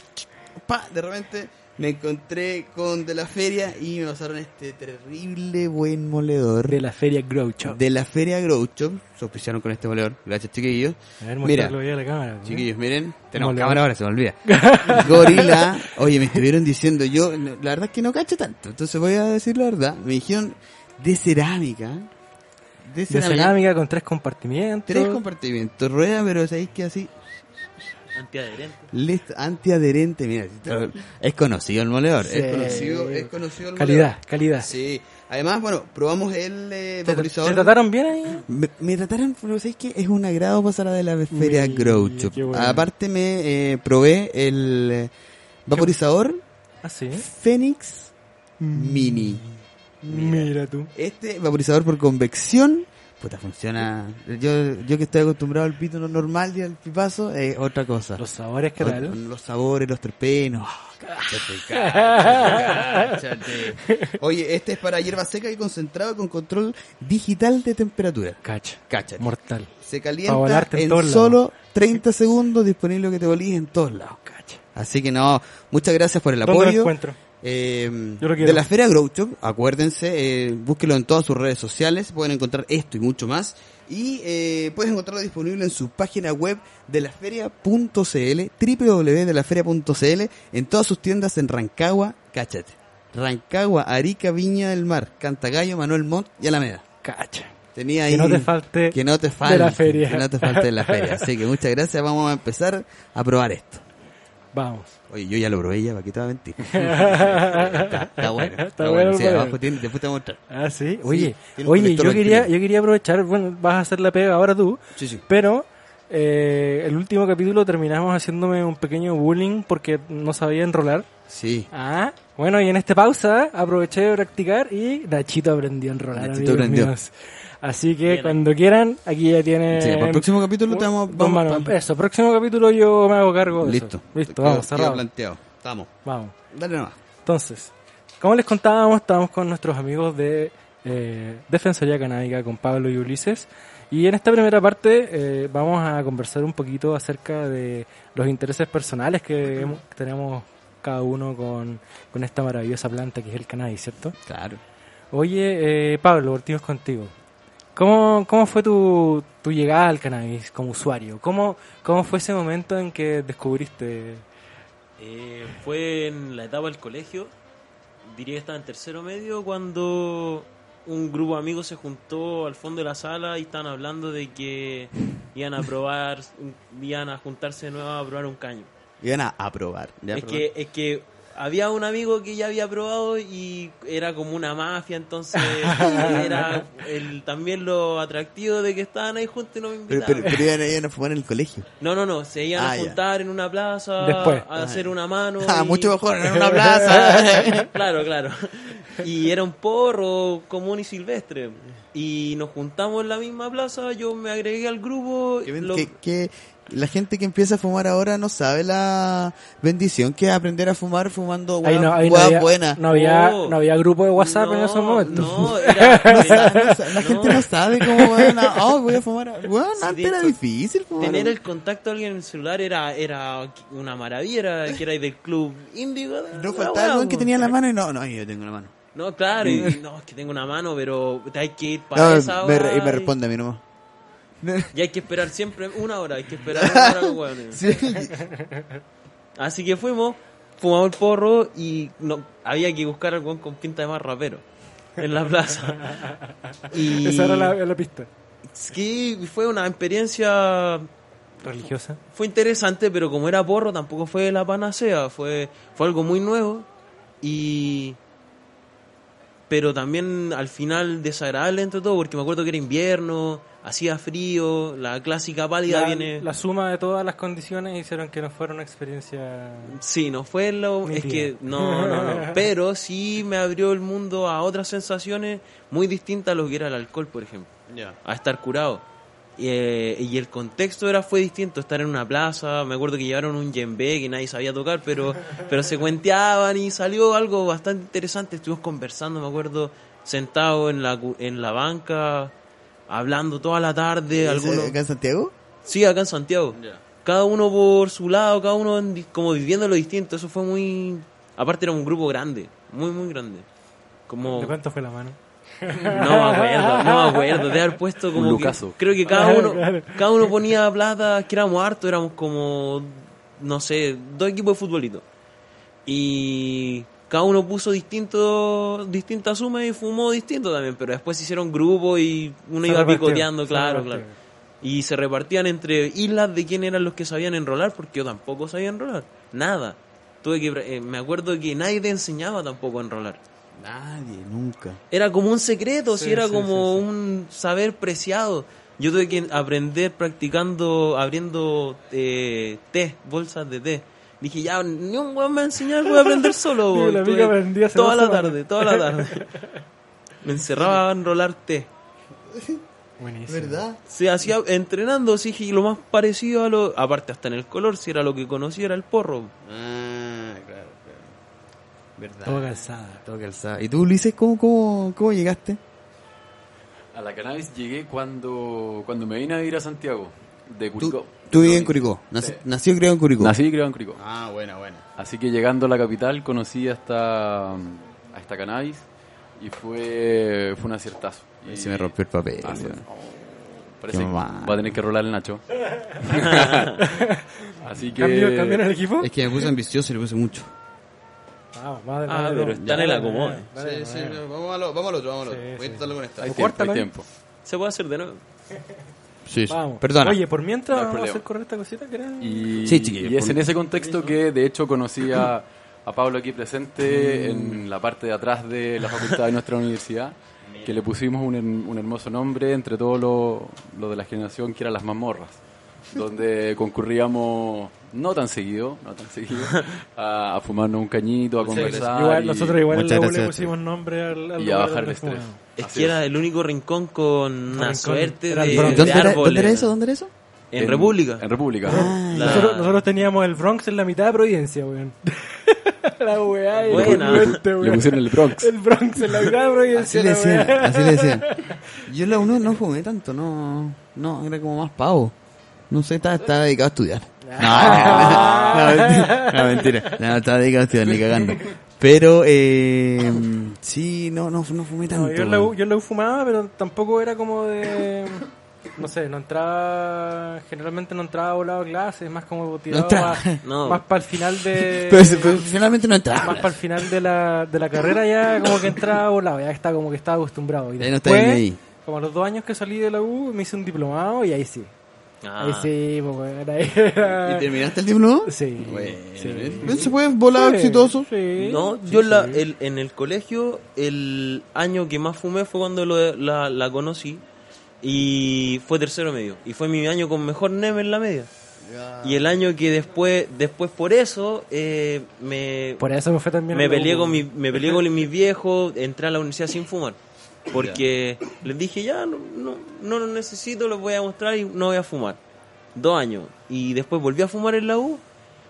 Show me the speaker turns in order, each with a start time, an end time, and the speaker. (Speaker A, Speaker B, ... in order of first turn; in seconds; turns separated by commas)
Speaker A: 0.2-6.8, Speaker B: 6.7-7.8, Speaker A: 7.6-11.8, Speaker B: 11.2-12.7, Speaker A: 12.4-22.1, Speaker B: 13.3-13.8, Speaker B: 14.4-15.9, Speaker A: 22.8-23.6, Speaker B: 23.1-25.2, Speaker A: 24.9-27.9, Speaker C: 28.1-28.9, Speaker A: 28.9-37.8, Speaker B: 32.2-34.7, Speaker B: 37.0-38.5, Speaker A: 38.3-45.1, Speaker B: 41.3-42.9, Speaker A: 45.7-46.4, Speaker B: 46.8-47.3, Speaker A: 47.1-48.1, Speaker B: 48.6-49.5, Speaker A: 48.7-49.4, Speaker A: 50.0-58.2, Speaker B: 50.1-50.9, Speaker B: 58.2-59.2, Speaker A: 58.8-69.3, Speaker B: 61.1-63.2, Speaker B: 63.8-64.1, Speaker B: 68.4-69.7, Speaker A: 69.8-74.2, Speaker B: 70.3-71.4, Speaker B: 74.2-74.6, Speaker A: 74.8-96.8, Speaker B: 76.4-77.2, Speaker B: 78.2-78.6, Speaker B: 97.0-97.5, Speaker A: 97.8-103.8, Speaker B: 98.1-101.3, Speaker B: 104.5-105.0, Speaker A: 105.1-110.4, Speaker B: 106.7-109.6, Speaker B: 110.5-121.1, Speaker A: 111.0-112.5, Speaker A: 115.0-115.2, Speaker A: 121.3-121.7, Speaker B: 121.7-135.1, Speaker A: 126.1-126.9, Speaker C: 128.1-128.4, Speaker A: 129.7-131.7, Speaker A: 133.6-135.9, Speaker B: 136.1-136.3, Speaker A: 136.5-137.0, Speaker B: 137.2-154.2, Speaker A: 154.3-154.6, Speaker B: 155.1-157.1, Speaker B: 157.8-164.2, Speaker C: 165.0-167.3, Speaker C: 168.1-178.7, Speaker A: 179.0-180.5, Speaker C: 180.1-190.5, Speaker B: 185.4-186.7, Speaker A: 189.9-191.7, Speaker C: 191.8-195.9, Speaker A: 192.6-193.0, Speaker B: 194.0-194.5, Speaker A: 194.6-197.7, Speaker B: 196.2-197.6, Speaker C: 196.9-205.9, Speaker A: 205.4-212.8, Speaker B: 211.6-218.7, Speaker C: 212.9-213.6, Speaker C: 214.2-217.4, Speaker A: 215.1-221.4, Speaker C: 219.8-220.3, Speaker C: 221.0-227.6, Speaker A: 226.3-228.7, Speaker C: 228.9-233.1, Speaker A: 229.4-229.8, Speaker A: 231.9-233.6, Speaker A: 234.4-234.7, Speaker C: 234.7-237.7, Speaker A: 236.5-238.2, Speaker B: 238.0-238.8, Speaker C: 239.4-244.4, Speaker C: 245.0-245.9, Speaker B: 245.9-248.1, Speaker C: 246.7-247.6, Speaker C: 248.5-250.9, Speaker B: 251.4-252.0, Speaker C: 252.1-256.7, Speaker C: 257.2-258.0, Speaker C: 259.5-266.2, Speaker B: 265.7-269.8, Speaker C: 269.7-277.5, Speaker B: 270.9-272.4, Speaker A: 277.7-278.0, Speaker C: 278.0-278.8, Speaker C: 279.4-292.3, Speaker C: 292.9-294.8, Speaker A: 294.1-295.3, Speaker C: 295.6-303.5, Speaker A: 296.6-296.8, Speaker C: 304.1-304.5, Speaker B: 304.3-307.7, Speaker C: 305.8-315.1, Speaker D: 308.1-308.8, Speaker B: 309.1-310.1, Speaker C: 315.9-324.1, Speaker B: 322.6-324.2, Speaker C: 324.6-333.2, Speaker A: 333.6-334.8, Speaker C: 334.9-349.3, Speaker B: 335.9-336.8, Speaker B: 346.0-349.6, Speaker C: 350.2-351.7, Speaker A: 352.3-352.6, Speaker B: 353.0-353.6, Speaker A: 353.3-353.8, Speaker C: 353.9-359.3, Speaker A: 359.4-361.1, Speaker A: 362.0-365.6, Speaker B: 362.3-363.1, Speaker D: 366.9-372.4, Speaker A: 370.8-373.4, Speaker D: 373.2-374.0, Speaker A: 373.9-374.8, Speaker D: 375.0-378.9, Speaker D: 379.4-386.8, Speaker A: 381.5-382.8, Speaker A: 383.9-384.8, Speaker C: 386.1-386.8, Speaker B: 386.8-389.5, Speaker D: 387.6-388.7, Speaker A: 389.0-390.5, Speaker B: 391.5-394.2, Speaker C: 392.1-393.5, Speaker A: 392.6-392.9, Speaker A: 393.5-396.4, Speaker B: 395.2-396.9, Speaker D: 396.2-397.1, Speaker C: 397.4-398.2, Speaker A: 399.3-400.2, Speaker B: 399.5-402.6, Speaker D: 400.7-401.2, Speaker D: 402.2-422.6, Speaker A: 402.6-403.4, Speaker A: 406.8-407.6, Speaker A: 410.5-410.8, Speaker C: 419.4-419.7, Speaker A: 421.4-421.9, Speaker B: 421.5-425.4, Speaker A: 422.7-423.5, Speaker D: 424.4-426.0, Speaker C: 425.6-429.7, Speaker B: 427.5-429.2, Speaker A: 428.5-430.1, Speaker C: 430.5-431.2, Speaker D: 430.6-432.0, Speaker A: 431.6-432.5, Speaker B: 431.7-441.8, Speaker C: 432.1-432.8, Speaker C: 436.7-437.4, Speaker D: 436.7-438.5, Speaker A: 439.7-441.3, Speaker A: 441.8-445.1, Speaker A: 445.7-455.5, Speaker B: 447.2-449.9, Speaker D: 447.6-448.5, Speaker D: 450.9-451.4, Speaker B: 454.9-465.5, Speaker A: 462.7-463.4, Speaker C: 463.4-463.8, Speaker A: 464.4-466.8, Speaker B: 466.1-474.7, Speaker A: 470.8-471.6, Speaker C: 475.2-475.7, Speaker B: 475.4-477.5, Speaker A: 477.0-481.1, Speaker B: 478.2-482.4, Speaker C: 481.4-487.2, Speaker C: 487.8-491.3, Speaker A: 491.6-492.4, Speaker C: 492.0-495.9, Speaker B: 495.8-497.3, Speaker C: 496.5-500.0, Speaker C: 500.5-505.2, Speaker A: 500.5-500.8, Speaker C: 505.8-508.0